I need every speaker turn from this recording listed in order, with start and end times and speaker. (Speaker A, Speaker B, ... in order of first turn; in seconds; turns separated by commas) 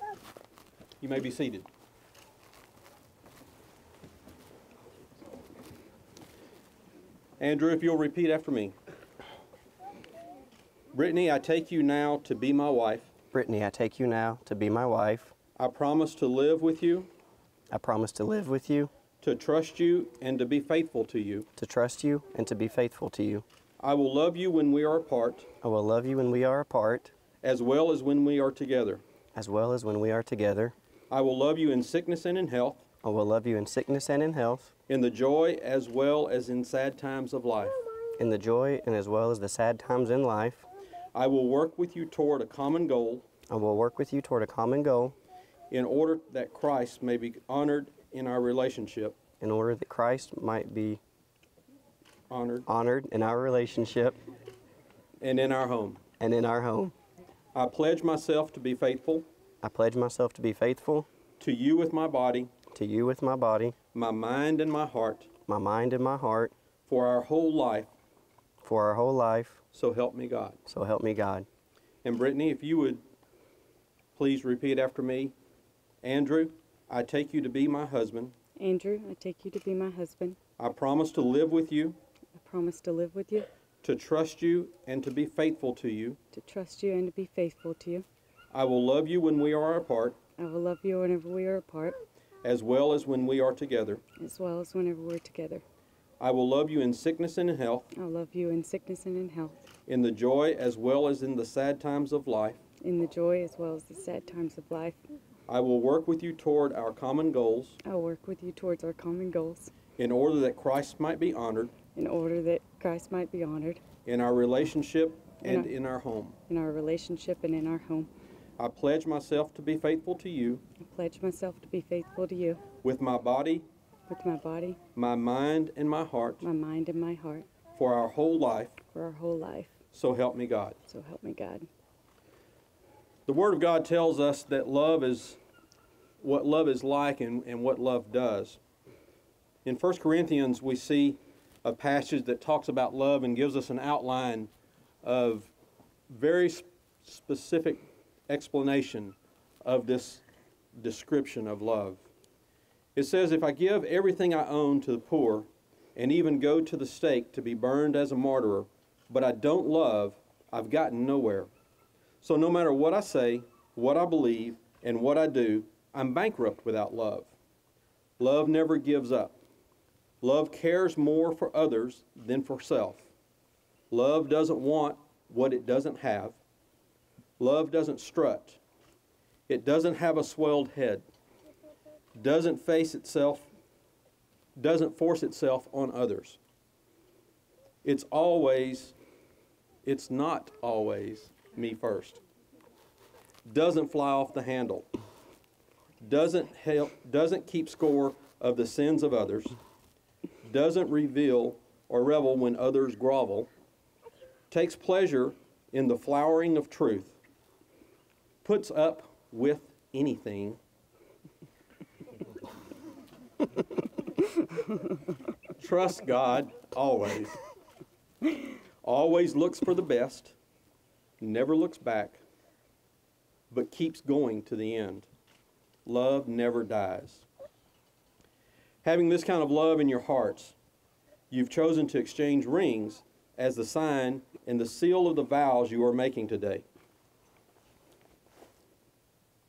Speaker A: 1.0-1.7, Speaker A: 7.4-8.7, Speaker A: 10.9-13.1, Speaker B: 13.3-15.3, Speaker A: 15.6-17.1, Speaker B: 17.7-18.9, Speaker A: 19.2-21.5, Speaker B: 21.6-23.4, Speaker A: 23.8-25.5, Speaker B: 25.6-27.1, Speaker A: 27.4-29.0, Speaker B: 29.3-30.7, Speaker A: 31.1-32.9, Speaker B: 33.0-34.7, Speaker A: 34.9-37.8, Speaker B: 38.2-40.7, Speaker A: 41.1-43.2, Speaker B: 43.5-45.1, Speaker A: 45.7-49.2, Speaker B: 49.4-51.0, Speaker A: 52.3-52.6, Speaker B: 52.6-54.2, Speaker A: 55.2-56.0, Speaker B: 56.2-56.9, Speaker A: 57.5-59.3, Speaker B: 59.6-61.1, Speaker A: 61.4-62.5, Speaker B: 62.7-63.8, Speaker A: 63.9-65.3, Speaker B: 65.5-66.5, Speaker A: 66.9-67.9, Speaker B: 68.6-69.6, Speaker A: 69.7-70.6, Speaker B: 70.7-71.5, Speaker A: 72.0-73.0, Speaker A: 74.2-75.3, Speaker A: 76.0-78.3, Speaker C: 78.6-80.4, Speaker A: 80.6-82.0, Speaker C: 82.3-83.5, Speaker A: 83.8-86.2, Speaker C: 86.3-88.0, Speaker A: 88.5-90.2, Speaker C: 90.4-92.0, Speaker A: 92.4-94.0, Speaker C: 94.2-95.6, Speaker A: 96.2-97.9, Speaker C: 97.9-99.5, Speaker A: 99.9-102.6, Speaker C: 102.8-105.0, Speaker A: 105.5-107.8, Speaker C: 107.8-109.7, Speaker A: 110.0-111.8, Speaker C: 111.9-113.8, Speaker A: 114.0-116.4, Speaker C: 115.4-115.7, Speaker C: 116.5-118.1, Speaker A: 118.6-120.6, Speaker C: 120.8-122.6, Speaker A: 122.8-123.7, Speaker C: 124.1-124.8, Speaker A: 125.0-126.4, Speaker C: 126.4-127.5, Speaker A: 127.7-128.8, Speaker C: 128.9-129.8, Speaker A: 129.9-130.8, Speaker C: 130.8-131.7, Speaker A: 133.2-135.4, Speaker A: 136.2-138.6, Speaker A: 139.6-144.5, Speaker A: 145.0-145.5, Speaker A: 146.1-150.2, Speaker A: 150.7-152.0, Speaker A: 152.9-161.5, Speaker A: 162.2-167.3, Speaker A: 168.2-169.3, Speaker A: 170.2-173.1, Speaker A: 173.9-176.4, Speaker A: 177.4-178.6, Speaker A: 179.5-181.0, Speaker A: 182.2-183.5, Speaker A: 184.6-186.4, Speaker A: 187.8-188.9, Speaker A: 189.8-192.2, Speaker A: 193.5-194.9, Speaker A: 196.0-199.6, Speaker A: 200.4-203.5, Speaker A: 204.5-207.2, Speaker A: 208.4-210.6, Speaker A: 215.6-217.4, Speaker A: 218.8-220.3, Speaker A: 221.2-222.2, Speaker A: 223.5-225.1, Speaker A: 225.8-227.2, Speaker A: 228.8-230.5, Speaker A: 231.3-236.6